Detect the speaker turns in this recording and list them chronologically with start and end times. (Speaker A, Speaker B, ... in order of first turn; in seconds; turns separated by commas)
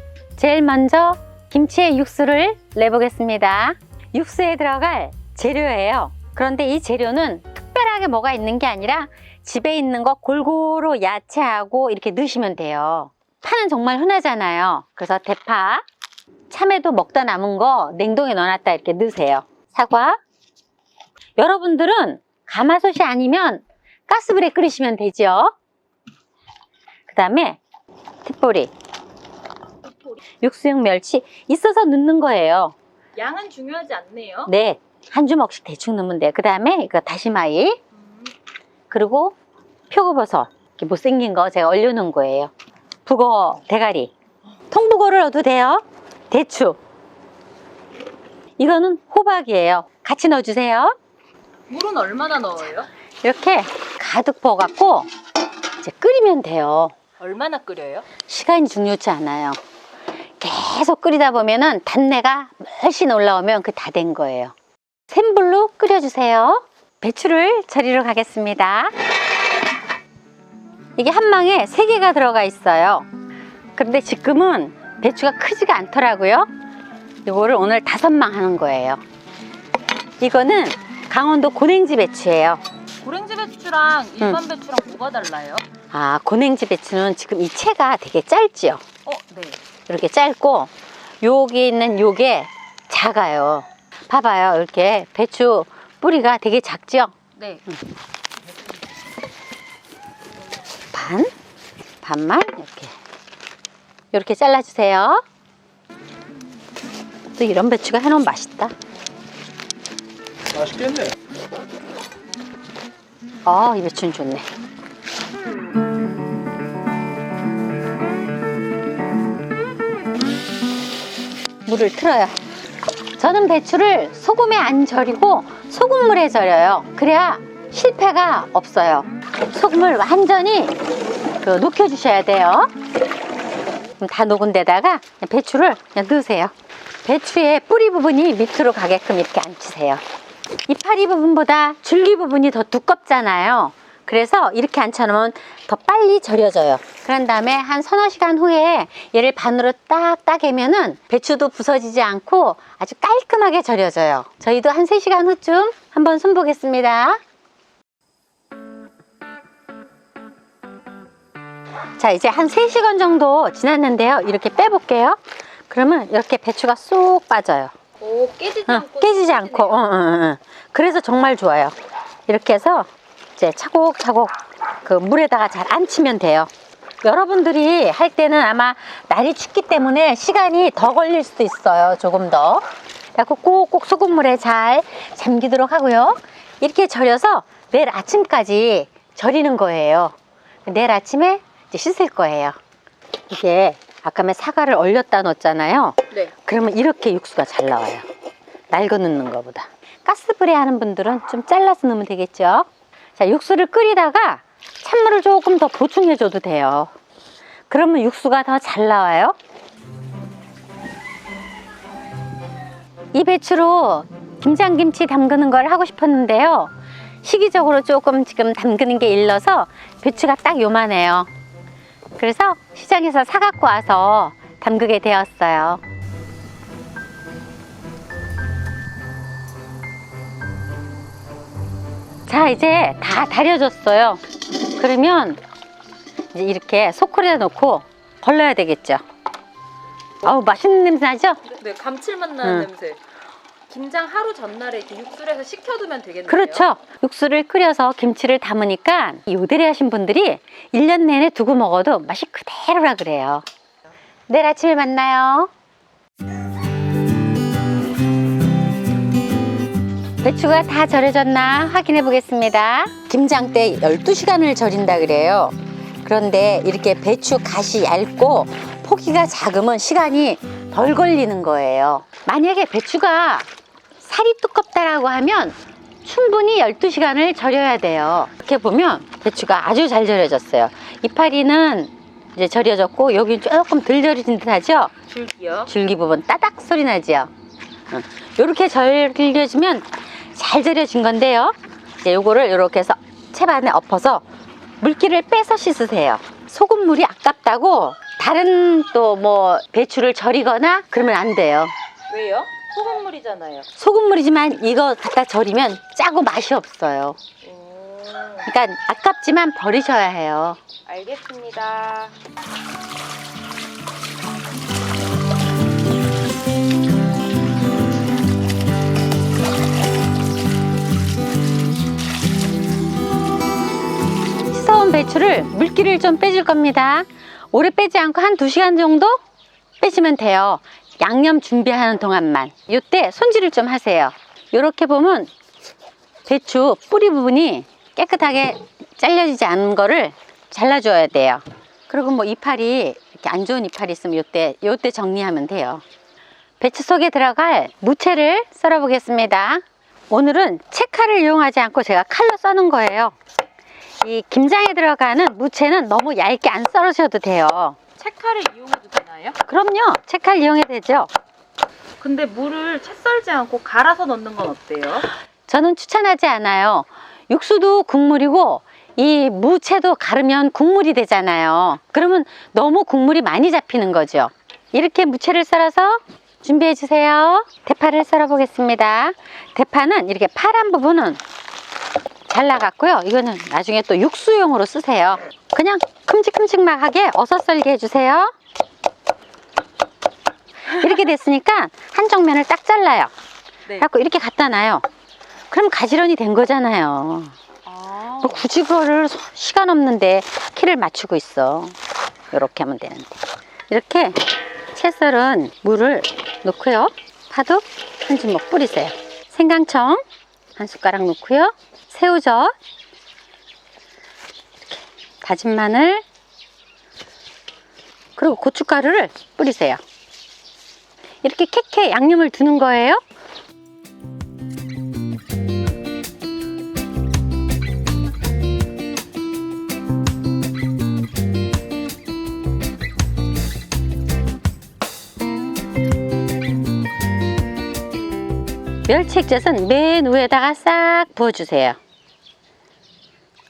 Speaker A: 0.4-15.8, Speaker A: 16.5-20.2, Speaker A: 21.4-25.5, Speaker A: 27.1-27.6, Speaker A: 28.2-28.7, Speaker A: 30.4-32.8, Speaker B: 33.2-34.5, Speaker A: 34.5-37.8, Speaker B: 38.0-38.3, Speaker A: 38.9-39.4, Speaker A: 39.9-42.5, Speaker A: 43.1-44.1, Speaker A: 44.7-46.8, Speaker A: 48.6-50.9, Speaker B: 51.7-52.9, Speaker A: 53.2-55.1, Speaker A: 55.8-57.0, Speaker B: 57.2-58.1, Speaker A: 58.2-59.6, Speaker A: 60.4-64.5, Speaker A: 65.1-69.0, Speaker A: 71.0-73.1, Speaker A: 73.8-76.5, Speaker A: 77.2-79.0, Speaker A: 80.2-82.6, Speaker B: 83.0-85.7, Speaker A: 85.9-88.8, Speaker B: 89.1-89.6, Speaker A: 89.9-97.2, Speaker B: 97.4-97.7, Speaker A: 100.9-101.3, Speaker A: 102.0-103.0, Speaker A: 104.1-105.2, Speaker A: 107.4-108.7, Speaker A: 113.5-114.5, Speaker A: 121.7-122.4, Speaker A: 123.2-130.8, Speaker A: 131.4-132.7, Speaker A: 134.0-136.5, Speaker A: 137.1-140.0, Speaker A: 140.7-157.2, Speaker A: 162.0-165.2, Speaker A: 165.7-167.7, Speaker B: 168.0-169.8, Speaker A: 168.7-171.8, Speaker A: 172.3-176.5, Speaker A: 177.0-182.6, Speaker A: 183.2-190.2, Speaker A: 190.7-192.6, Speaker A: 193.3-198.1, Speaker A: 198.7-206.9, Speaker A: 207.7-209.4, Speaker A: 213.1-221.3, Speaker A: 222.2-225.8, Speaker A: 232.3-234.2, Speaker A: 234.8-235.4, Speaker A: 236.3-239.0, Speaker A: 240.2-241.4, Speaker B: 241.4-243.0, Speaker A: 242.4-242.7, Speaker B: 243.7-246.7, Speaker A: 246.3-253.4, Speaker A: 254.3-255.5, Speaker A: 260.2-273.5, Speaker A: 274.0-284.9, Speaker B: 285.1-285.7, Speaker A: 285.7-287.3, Speaker A: 287.9-294.2, Speaker A: 294.8-301.7, Speaker B: 302.1-303.7, Speaker A: 303.8-307.2, Speaker B: 307.4-308.5, Speaker A: 308.5-310.6, Speaker B: 310.9-312.1, Speaker A: 324.4-329.2, Speaker A: 329.8-335.3, Speaker A: 336.3-345.8, Speaker A: 346.6-353.2, Speaker A: 354.0-357.8, Speaker B: 358.0-359.4, Speaker A: 359.5-361.1, Speaker B: 362.0-365.1, Speaker A: 365.5-381.2, Speaker A: 382.3-388.3, Speaker A: 390.7-393.1, Speaker A: 393.8-394.9, Speaker A: 395.5-397.4, Speaker B: 397.7-398.4, Speaker A: 398.2-401.8, Speaker A: 402.3-410.0, Speaker A: 410.6-412.5, Speaker A: 415.2-416.0, Speaker A: 418.2-419.8, Speaker A: 421.2-423.0, Speaker A: 438.9-441.8